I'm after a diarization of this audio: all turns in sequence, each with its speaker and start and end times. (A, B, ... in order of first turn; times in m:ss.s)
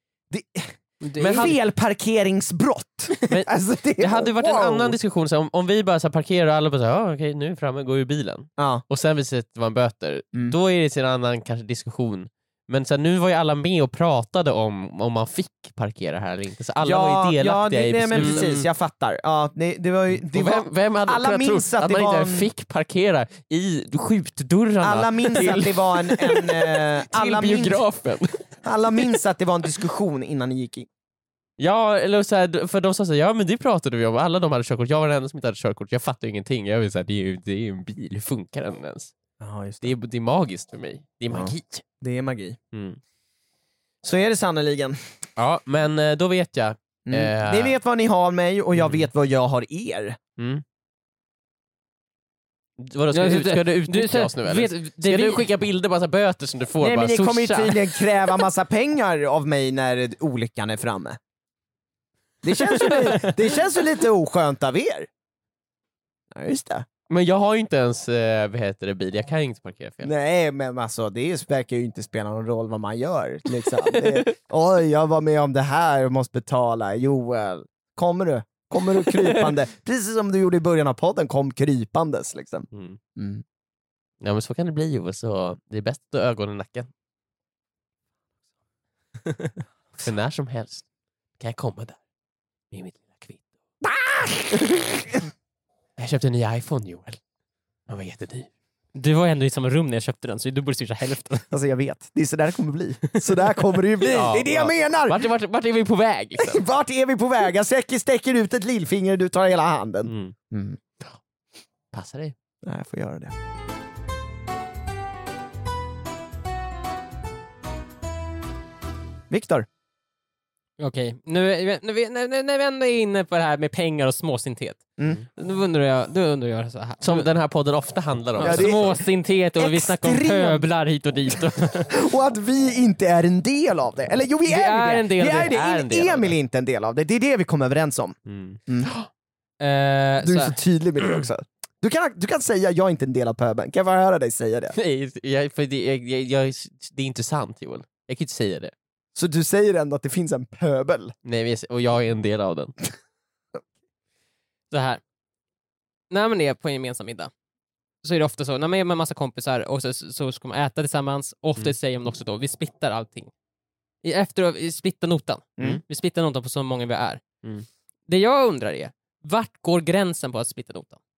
0:00.3-0:05.0 A
0:01.0-0:01.5 B
0:01.2-0:01.6 C
0:04.0-0:18.6 C
0:08.6-0:08.8 A
0:16.8-0:22.5 A
0:18.2-0:18.6 B
0:20.2-0:28.5 C
0:24.8-0:27.8 A
0:28.6-0:30.9 A
0:31.6-0:39.1 C
0:39.4-0:39.9 A
0:39.8-0:41.8 C
0:41.3-0:42.6 A
0:42.7-0:43.0 C
0:44.0-0:45.0 A
0:45.4-0:47.7 C
0:47.0-0:50.2 A
0:48.7-0:49.1 C
0:50.4-0:50.6 C
0:52.8-0:58.0 C
0:53.1-0:55.5 B
0:56.8-1:01.2 A
1:02.4-1:05.1 A
1:02.6-1:03.3 B
1:06.3-1:06.8 A
1:07.1-1:10.1 C
1:10.0-1:23.4 A
1:22.7-1:23.0 C
1:24.2-1:26.9 C
1:30.0-1:30.8 C
1:31.4-1:32.0 C
1:32.7-1:33.4 C
1:33.8-1:35.2 A
1:36.0-1:37.2 C
1:37.9-1:38.5 C
1:38.9-1:41.5 B
1:41.5-1:45.2 A
1:44.0-1:46.6 C
1:46.4-1:50.8 A
1:50.0-1:50.3 C
1:51.9-1:52.3 C
1:52.6-1:53.3 A
1:59.3-1:59.6 A
2:00.8-2:04.8 B
2:05.4-2:07.3 B
2:07.0-2:08.9 C
2:08.4-2:11.9 B
2:08.4-2:09.0 A
2:09.6-2:10.6 A
2:11.9-2:18.2 A
2:14.5-2:16.2 B
2:18.3-2:19.1 C
2:19.6-2:20.5 B
2:20.2-2:24.8 A
2:24.7-2:28.7 C
2:29.1-2:31.1 A
2:31.2-2:32.7 C
2:34.7-2:35.0 B
2:36.1-2:37.3 B
2:38.0-2:43.3 B
2:44.0-2:47.2 B
2:48.1-2:51.0 B